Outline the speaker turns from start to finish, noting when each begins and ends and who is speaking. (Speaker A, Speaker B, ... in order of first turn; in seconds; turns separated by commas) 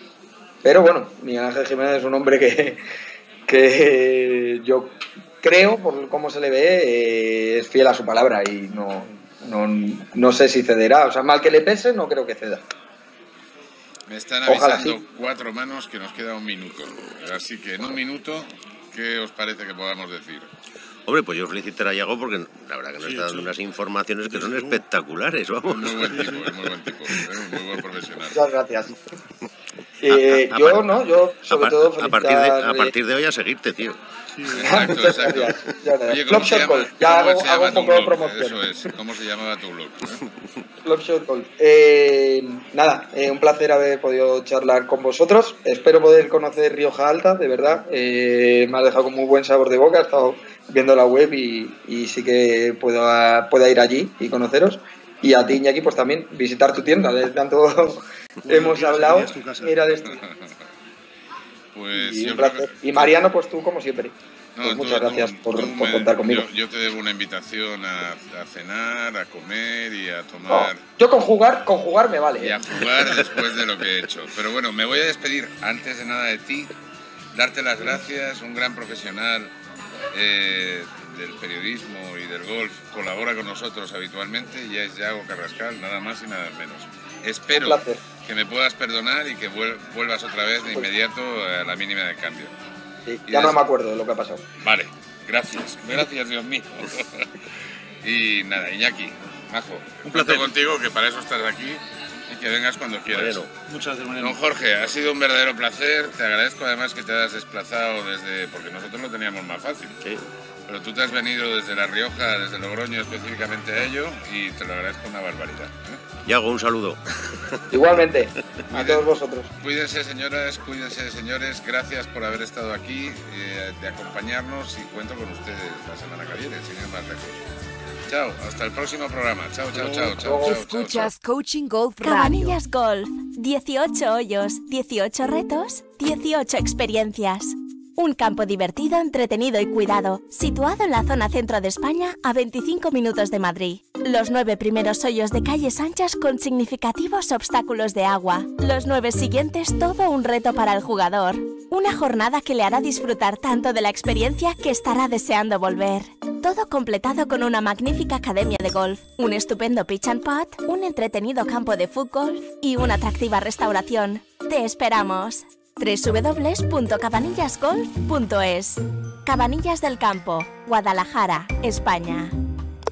Speaker A: 0.6-2.8, Speaker A: 3.5-12.7, Speaker B: 14.1-20.5, Speaker A: 14.5-14.9, Speaker C: 21.1-26.4, Speaker D: 23.0-23.5, Speaker D: 24.3-24.8, Speaker B: 25.8-28.4, Speaker D: 26.1-26.5, Speaker A: 28.3-28.9, Speaker A: 30.0-32.9, Speaker C: 30.1-34.0, Speaker D: 34.3-34.9, Speaker B: 34.5-40.2, Speaker A: 34.6-38.6, Speaker A: 40.9-60.2, Speaker D: 58.4-59.9, Speaker B: 60.2-60.5, Speaker B: 61.7-63.2, Speaker A: 61.9-66.5, Speaker B: 64.6-70.8, Speaker A: 70.5-72.6, Speaker B: 72.4-76.7, Speaker B: 77.3-79.5, Speaker B: 80.1-92.5, Speaker A: 87.5-88.0, Speaker A: 93.1-94.4, Speaker B: 93.3-93.6, Speaker B: 94.6-97.3, Speaker B: 98.0-103.5, Speaker D: 100.0-100.5, Speaker C: 103.1-103.5, Speaker D: 103.7-104.4, Speaker B: 104.2-110.0, Speaker B: 110.7-116.0, Speaker C: 116.2-118.0, Speaker A: 117.7-119.5, Speaker B: 118.7-119.1, Speaker B: 119.6-127.4, Speaker B: 128.1-131.1, Speaker D: 129.7-130.2, Speaker A: 130.2-130.6, Speaker E: 130.3-132.6, Speaker F: 132.0-172.3